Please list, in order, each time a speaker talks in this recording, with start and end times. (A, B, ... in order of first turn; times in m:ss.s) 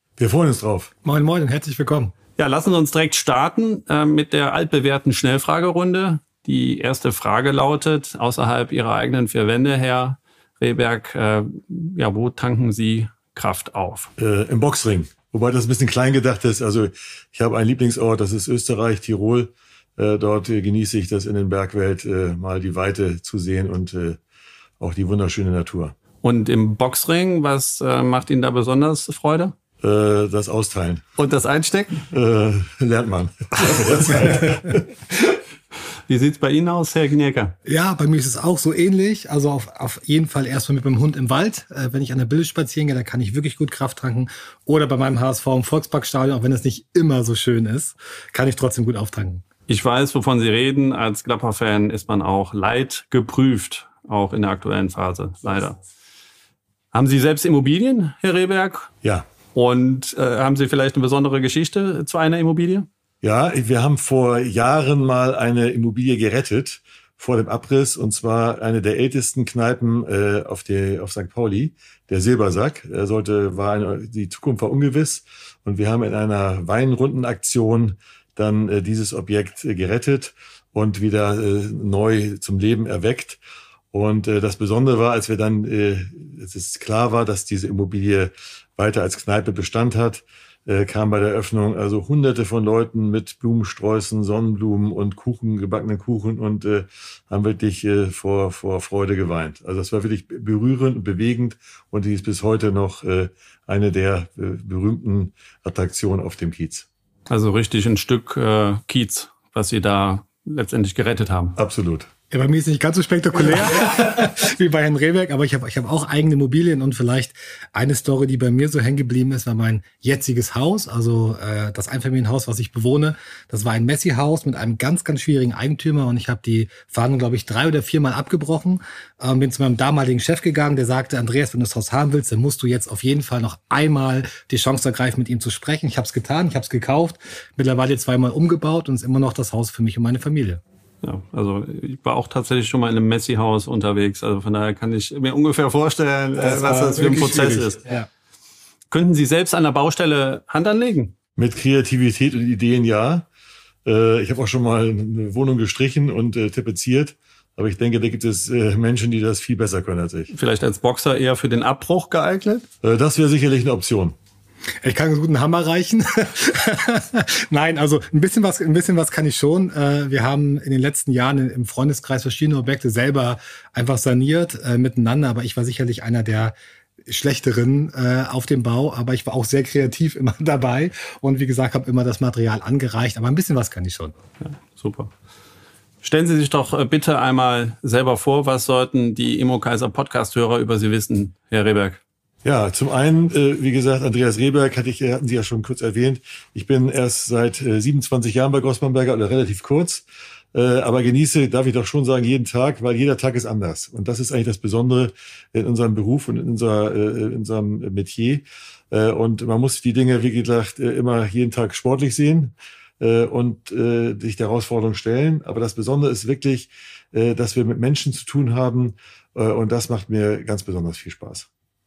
0:00.2-0:00.9 A
0:01.0-0:02.1 B
0:02.4-0:14.1 C
0:14.2-0:24.2 A
0:24.8-0:25.9 A
0:26.2-0:29.5 C
0:29.8-0:31.0 A
0:31.2-0:32.0 C
0:32.1-0:34.9 A
0:36.1-0:37.5 C
0:37.6-0:49.4 B
0:49.7-0:55.8 C
0:56.9-0:58.9 C
0:59.5-1:02.9 C
1:03.2-1:23.4 A
1:23.9-1:46.9 A
1:47.3-1:51.6 C
1:51.6-1:52.1 A
1:52.3-2:20.6 B
2:21.0-2:27.8 C
2:26.4-2:28.1 B
2:28.9-2:31.1 C
2:31.4-2:33.2 A
2:33.8-2:40.3 A
2:40.3-2:42.6 C
2:42.8-2:44.2 A
2:44.8-3:04.1 B
3:04.4-3:05.1 C
3:06.0-3:12.0 C
3:12.4-3:41.5 A